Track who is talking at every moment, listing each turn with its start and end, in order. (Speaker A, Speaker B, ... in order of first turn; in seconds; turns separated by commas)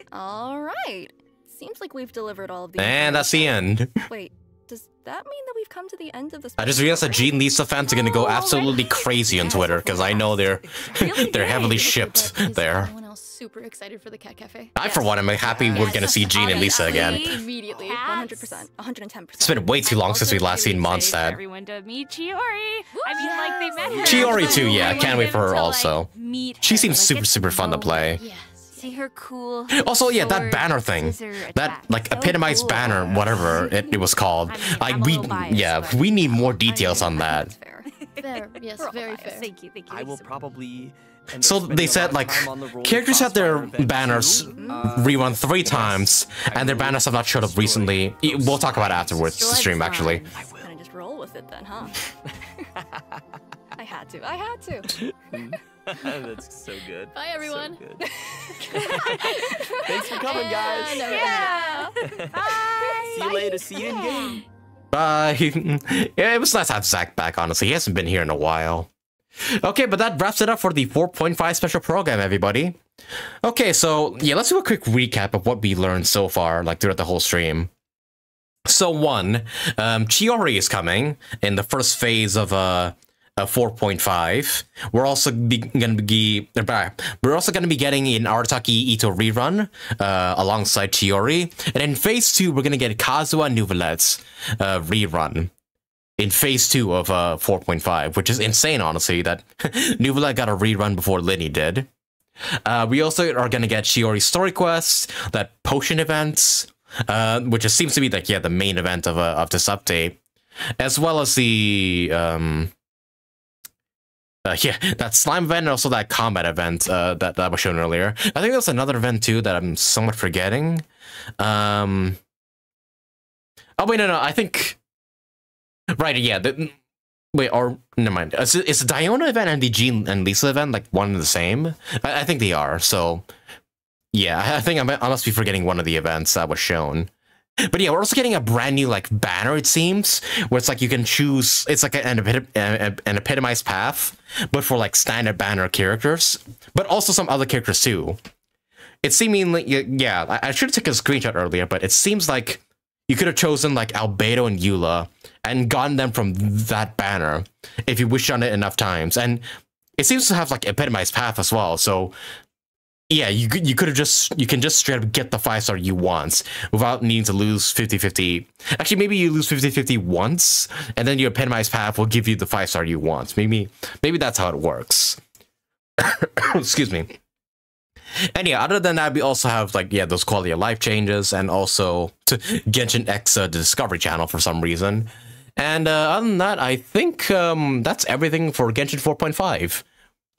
Speaker A: 0.1-7.5, Speaker B: 2.8-4.0, Speaker B: 6.6-12.9, Speaker C: 8.0-9.9, Speaker D: 8.3-10.1, Speaker E: 9.5-11.9, Speaker A: 9.6-10.3, Speaker C: 11.0-15.1, Speaker B: 14.8-17.3, Speaker E: 15.4-16.0, Speaker D: 15.7-18.6, Speaker C: 15.7-18.0, Speaker A: 18.0-19.8, Speaker B: 19.4-21.4, Speaker D: 19.9-28.2, Speaker C: 23.0-25.4, Speaker E: 23.9-25.2, Speaker A: 24.0-24.7, Speaker B: 24.0-26.1, Speaker B: 26.6-28.2, Speaker C: 28.2-28.9, Speaker D: 28.7-33.7, Speaker B: 29.8-37.5, Speaker E: 32.8-33.5, Speaker D: 34.5-36.5, Speaker A: 36.6-37.9, Speaker D: 37.9-40.3, Speaker C: 38.2-39.5, Speaker A: 38.8-39.4, Speaker E: 39.9-49.5, Speaker B: 41.4-50.3, Speaker A: 44.5-45.1, Speaker A: 49.4-52.7, Speaker E: 50.4-50.7, Speaker E: 52.3-53.3, Speaker A: 53.7-55.0, Speaker E: 54.9-64.4, Speaker C: 57.1-57.8, Speaker A: 58.3-59.3, Speaker C: 58.6-63.3, Speaker D: 60.1-64.4, Speaker A: 61.1-61.9, Speaker A: 63.3-63.6, Speaker B: 64.9-68.9, Speaker B: 69.6-72.8, Speaker B: 73.4-77.7, Speaker B: 78.7-95.5, Speaker B: 96.2-101.9, Speaker B: 102.7-110.2, Speaker B: 110.8-112.7, Speaker B: 114.5-120.8, Speaker B: 121.4-122.2, Speaker B: 123.8-124.8, Speaker B: 126.0-126.8, Speaker B: 127.3-133.3, Speaker B: 134.1-137.1, Speaker B: 137.6-148.2, Speaker B: 149.0-159.4, Speaker B: 160.0-162.2, Speaker B: 163.1-175.2, Speaker B: 176.0-177.1, Speaker B: 178.3-189.8